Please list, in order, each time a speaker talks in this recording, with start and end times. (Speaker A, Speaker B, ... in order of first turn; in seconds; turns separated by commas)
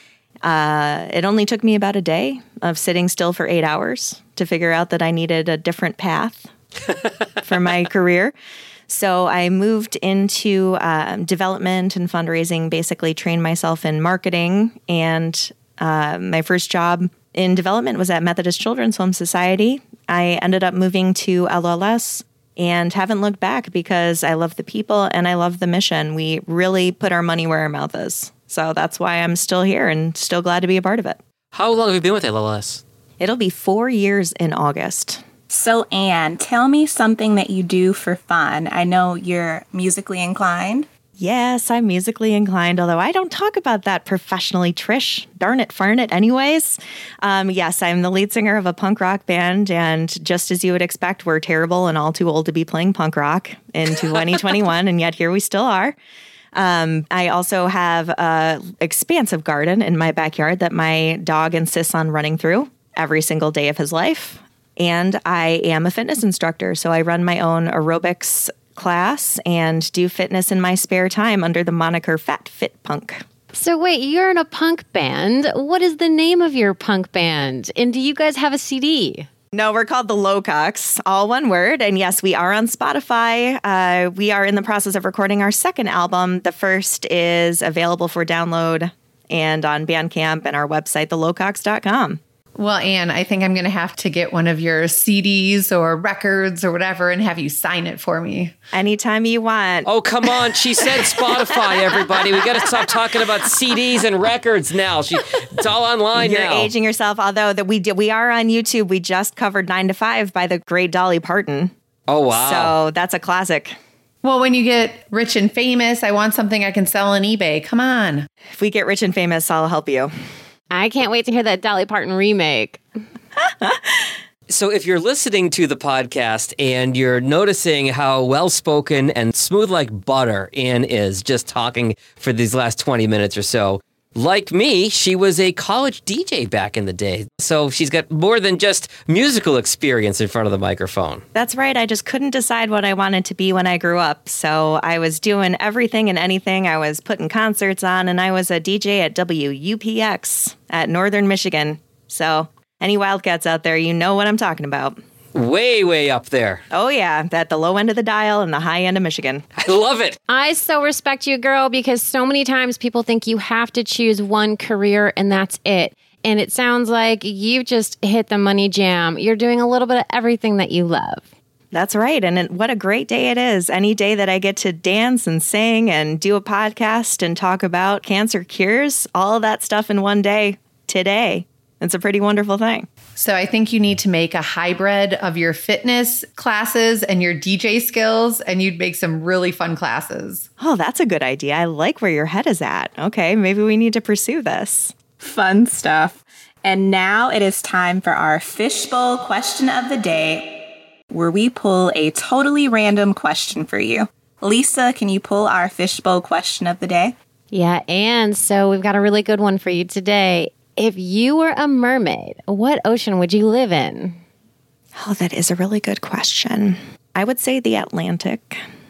Speaker A: 0.4-6.5, Speaker A: 7.4-8.3, Speaker A: 8.9-31.2, Speaker B: 31.5-32.8, Speaker A: 33.2-35.2, Speaker C: 35.5-40.9, Speaker A: 41.2-56.0, Speaker A: 56.5-73.2, Speaker D: 73.5-79.3, Speaker A: 79.5-92.2, Speaker E: 92.6-98.6, Speaker A: 98.7-99.9, Speaker B: 99.8-106.7, Speaker A: 106.1-111.7, Speaker B: 112.1-112.8, Speaker A: 112.3-113.8, Speaker E: 114.2-118.3, Speaker A: 118.6-120.1, Speaker D: 120.7-122.8, Speaker A: 123.7-124.0, Speaker B: 124.5-141.2, Speaker A: 141.3-155.0, Speaker B: 155.3-156.6, Speaker A: 156.7-159.4, Speaker B: 159.6-160.2, Speaker D: 160.3-171.3, Speaker A: 171.7-182.9, Speaker E: 183.2-190.4, Speaker A: 190.6-194.9, Speaker C: 195.2-207.2, Speaker D: 207.5-214.2, Speaker A: 215.0-218.6